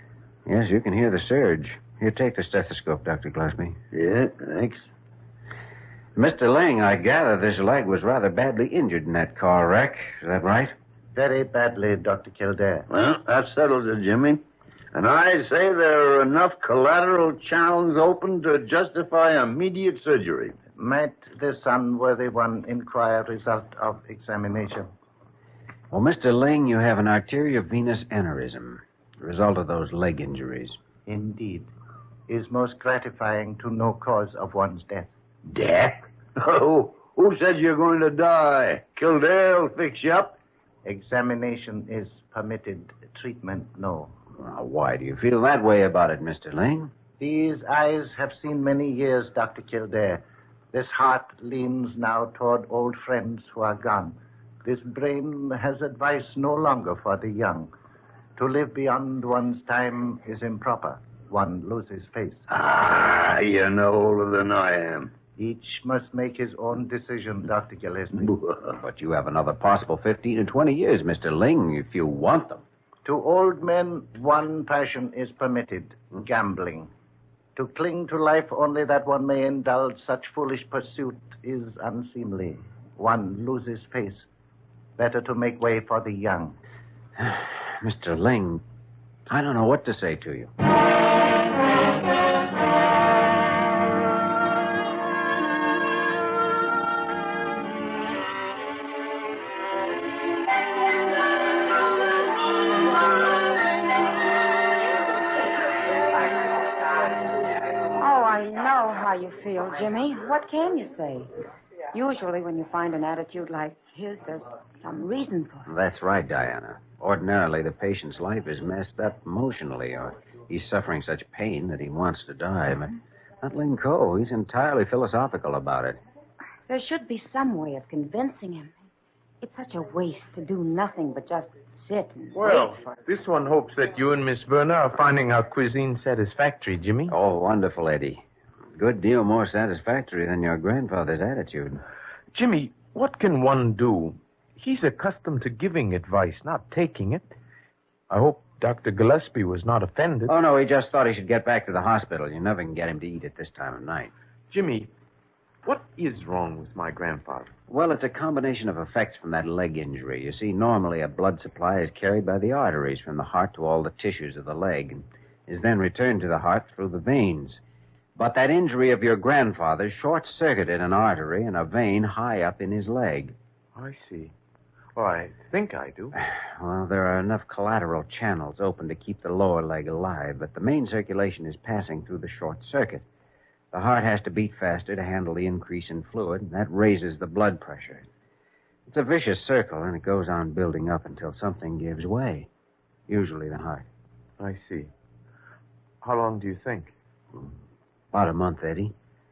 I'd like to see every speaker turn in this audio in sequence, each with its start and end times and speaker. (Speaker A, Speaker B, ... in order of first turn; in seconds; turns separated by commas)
Speaker A: 0.5-3.8, Speaker B: 3.9-4.8, Speaker A: 6.2-10.7, Speaker C: 11.1-12.9, Speaker B: 12.9-14.4, Speaker B: 14.9-20.6, Speaker C: 20.8-24.9, Speaker A: 25.9-30.8, Speaker C: 31.1-31.7, Speaker C: 32.3-35.1, Speaker B: 35.5-40.4, Speaker C: 40.9-44.1, Speaker A: 44.4-46.9, Speaker C: 47.2-57.7, Speaker C: 58.4-62.4, Speaker B: 62.5-65.1, Speaker C: 65.4-68.4, Speaker B: 68.4-68.7, Speaker A: 68.8-72.7, Speaker C: 73.0-76.9, Speaker C: 77.6-84.2, Speaker C: 85.0-86.6, Speaker A: 87.2-88.6, Speaker A: 89.3-90.5, Speaker D: 108.0-111.3, Speaker D: 111.9-115.7, Speaker A: 115.7-126.0, Speaker D: 126.7-128.8, Speaker D: 129.4-132.7, Speaker E: 132.3-137.2, Speaker A: 137.1-138.2, Speaker A: 138.8-141.8, Speaker E: 142.3-147.2, Speaker E: 148.1-150.3, Speaker A: 150.3-154.1, Speaker E: 154.5-154.9, Speaker E: 155.6-157.5, Speaker A: 157.7-167.6, Speaker A: 168.2-173.3, Speaker E: 173.8-174.3, Speaker E: 174.9-176.2, Speaker A: 176.2-183.1, Speaker A: 183.7-188.1, Speaker A: 188.9-192.5, Speaker A: 193.1-193.9, Speaker E: 194.4-194.9, Speaker E: 196.0-196.9, Speaker A: 198.1-198.9